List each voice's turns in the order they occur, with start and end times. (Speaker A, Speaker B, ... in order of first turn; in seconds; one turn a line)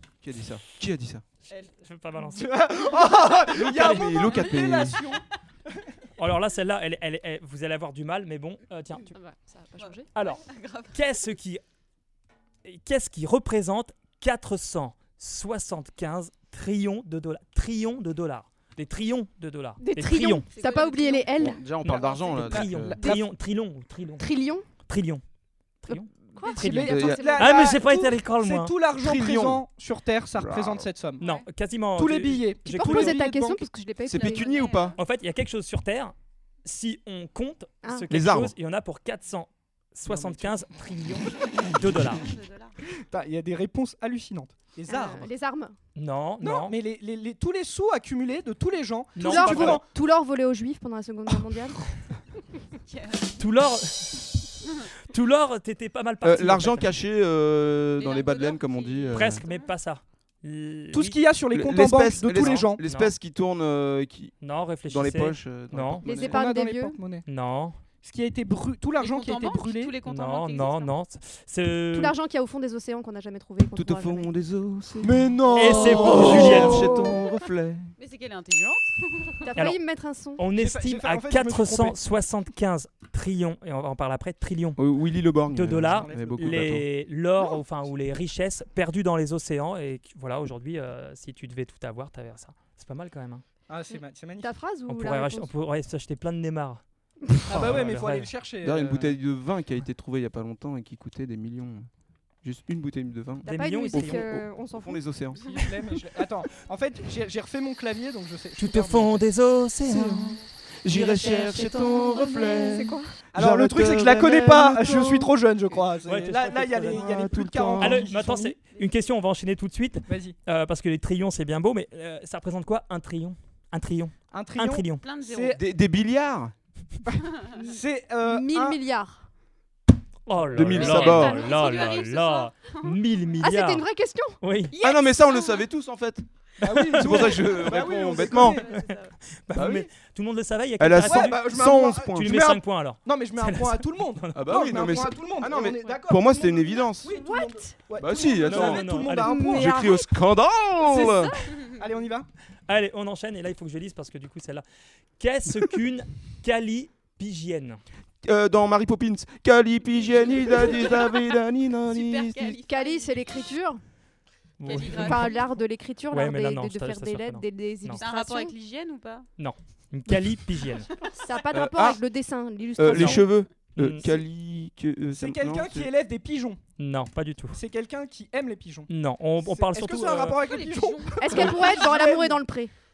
Speaker A: 0.2-1.2
Speaker B: 1.5-5.2
Speaker C: 1.6-2.6
Speaker A: 3.5-5.0
Speaker C: 3.7-4.2
Speaker C: 6.2-9.1
Speaker D: 9.1-10.1
Speaker E: 9.8-11.0
Speaker C: 10.1-11.6
Speaker C: 12.6-20.5
Speaker F: 19.8-21.6
Speaker E: 20.5-22.3
Speaker A: 21.3-23.2
Speaker C: 21.8-24.3
Speaker B: 22.6-23.1
Speaker F: 24.2-24.7
Speaker C: 24.8-25.2
Speaker C: 25.8-28.7
Speaker F: 25.9-27.8
Speaker B: 26.4-31.2
Speaker A: 26.8-27.4
Speaker A: 28.9-29.6
Speaker A: 30.3-30.9
Speaker E: 31.2-31.4
Speaker C: 31.2-33.3
Speaker B: 31.9-33.6
Speaker F: 32.6-34.5
Speaker A: 34.0-35.0
Speaker E: 34.1-35.0
Speaker C: 35.0-42.3
Speaker A: 38.1-38.5
Speaker B: 40.0-40.6
Speaker E: 41.9-42.8
Speaker B: 43.1-45.3
Speaker F: 44.9-45.8
Speaker C: 46.0-46.8
Speaker B: 46.4-49.8
Speaker C: 49.2-49.8
Speaker F: 49.2-51.8
Speaker E: 52.8-53.4
Speaker C: 53.4-54.5
Speaker C: 55.1-56.9
Speaker A: 56.2-59.4
Speaker E: 58.0-59.8
Speaker C: 59.1-61.2
Speaker B: 60.9-62.8
Speaker A: 61.5-66.4
Speaker C: 62.4-63.1
Speaker C: 64.4-66.1
Speaker F: 66.0-67.0
Speaker B: 66.2-67.2
Speaker C: 67.2-67.8
Speaker B: 68.0-70.0
Speaker E: 69.0-70.9
Speaker C: 70.0-72.1
Speaker F: 71.9-74.3
Speaker A: 73.7-77.9
Speaker B: 75.0-76.8
Speaker C: 75.5-76.9
Speaker F: 75.7-77.2
Speaker E: 78.0-79.4
Speaker F: 79.4-80.4
Speaker C: 80.4-84.8
Speaker B: 80.5-82.0
Speaker A: 84.8-86.9
Speaker C: 85.5-93.4
Speaker B: 85.7-86.8
Speaker B: 93.7-94.5
Speaker F: 94.4-95.5
Speaker C: 94.9-96.8
Speaker B: 97.5-99.2
Speaker C: 97.5-98.3
Speaker A: 98.6-101.9
Speaker A: 102.4-105.4
Speaker C: 103.4-104.4
Speaker F: 103.4-105.0
Speaker B: 105.5-109.2
Speaker C: 108.6-110.4
Speaker A: 109.8-115.3
Speaker F: 110.9-113.1
Speaker B: 113.3-118.6
Speaker C: 116.0-117.1
Speaker A: 116.9-118.1
Speaker C: 117.8-125.0
Speaker B: 120.1-120.4
Speaker B: 124.3-125.6
Speaker E: 125.0-125.6
Speaker A: 125.5-126.5
Speaker B: 127.6-128.8
Speaker F: 127.6-129.2
Speaker C: 130.2-133.8
Speaker A: 130.5-131.4
Speaker E: 130.8-133.0
Speaker D: 131.0-132.0
Speaker F: 133.4-134.4
Speaker C: 134.4-134.8
Speaker E: 134.7-135.6
Speaker A: 134.8-136.2
Speaker B: 136.6-138.7
Speaker C: 136.7-137.4
Speaker A: 136.9-138.6
Speaker E: 137.8-139.1
Speaker C: 138.8-144.7
Speaker A: 139.5-139.9
Speaker A: 140.8-142.5
Speaker B: 141.0-149.9
Speaker A: 144.3-147.1
Speaker F: 147.0-147.8
Speaker A: 148.0-151.4
Speaker C: 148.5-149.4
Speaker F: 149.1-150.1
Speaker B: 150.9-152.3
Speaker C: 152.7-154.6
Speaker C: 155.2-157.8
Speaker A: 158.2-162.6
Speaker E: 160.4-161.1
Speaker E: 161.9-163.2
Speaker F: 162.7-163.8
Speaker C: 164.6-165.4
Speaker E: 164.6-165.5
Speaker F: 164.8-168.5
Speaker C: 166.1-168.0
Speaker E: 167.9-169.3
Speaker C: 169.4-170.9
Speaker F: 171.2-173.2
Speaker A: 171.5-172.0
Speaker A: 172.8-175.9
Speaker C: 172.9-174.2
Speaker B: 175.1-176.6
Speaker C: 176.8-177.6
Speaker B: 177.5-182.4
Speaker C: 178.9-180.4
Speaker E: 180.4-181.7
Speaker F: 181.2-182.7